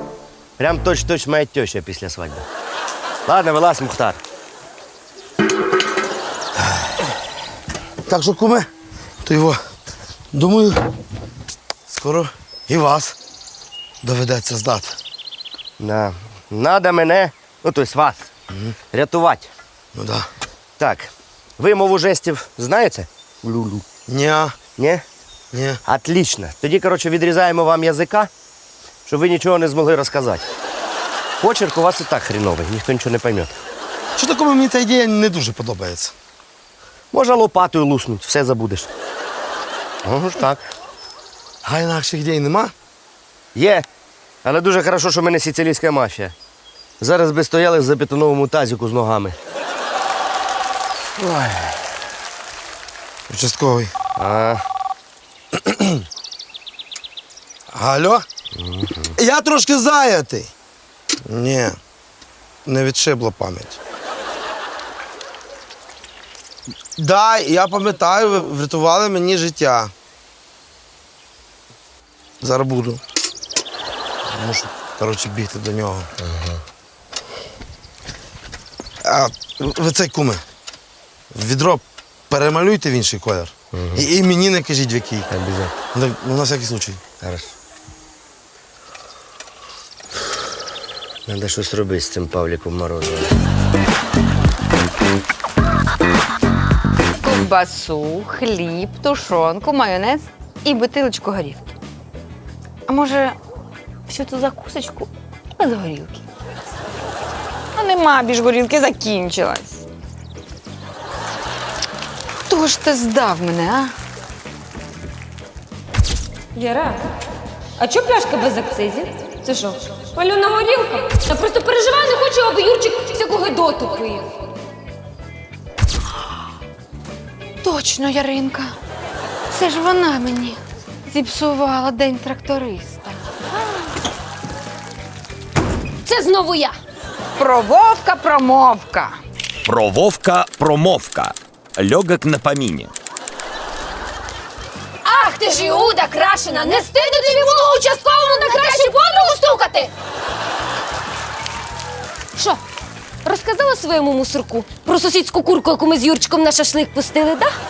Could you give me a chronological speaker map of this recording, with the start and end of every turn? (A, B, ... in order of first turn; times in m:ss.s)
0:00.6-0:02.5 A
0:03.3-0:04.2 A
0:08.0-0:08.7 B
0:09.2-0:09.6 B
0:10.3-0:10.8 B
0:11.9-0:13.1 B
0:14.0-0:15.0 B
0:15.8-0:18.3 A
0:18.9-0:19.5 A
0:19.9-0:20.3 B
0:20.8-0:23.8 A
0:24.1-0:24.6 B
0:24.8-0:25.0 A
0:25.5-0:25.8 B
0:25.8-0:28.3 A
0:29.1-0:30.4 A
0:31.4-0:33.5 A
0:34.2-0:36.1 B
0:37.1-0:38.9 A
0:40.0-0:40.6 A
0:41.6-0:42.7 B
0:43.5-0:43.8 A
0:44.4-0:46.3 A
0:47.0-0:49.4 A
0:51.2-0:51.7 A
0:53.3-0:53.9 B
0:54.2-0:54.6 A
0:55.6-0:56.0 B
0:57.7-0:58.2 B
0:58.5-0:59.1 A
0:59.2-1:00.5 B
1:01.2-1:01.8 B
1:02.6-1:03.8 B
1:07.0-1:09.9 B
1:12.4-1:13.0 B
1:14.3-1:16.1 B
1:16.2-1:16.6 A
1:19.0-1:20.4 B
1:21.3-1:25.3 B
1:23.7-1:24.0 A
1:25.3-1:25.7 A
1:25.9-1:27.0 B
1:27.2-1:27.5 A
1:31.2-1:33.4 A
1:37.2-1:41.7 C
1:42.9-1:43.4 C
1:44.1-1:46.2 C
1:47.7-1:49.8 C
1:52.4-1:53.9 C
1:56.5-1:57.0 D
1:57.8-2:04.3 D
2:07.6-2:08.7 C
2:09.5-2:13.2 C
2:16.0-2:16.8 D
2:17.4-2:19.2 C
2:19.6-2:22.9 E
2:25.0-2:29.9 D
2:26.5-2:29.9 C
2:33.2-2:37.6 D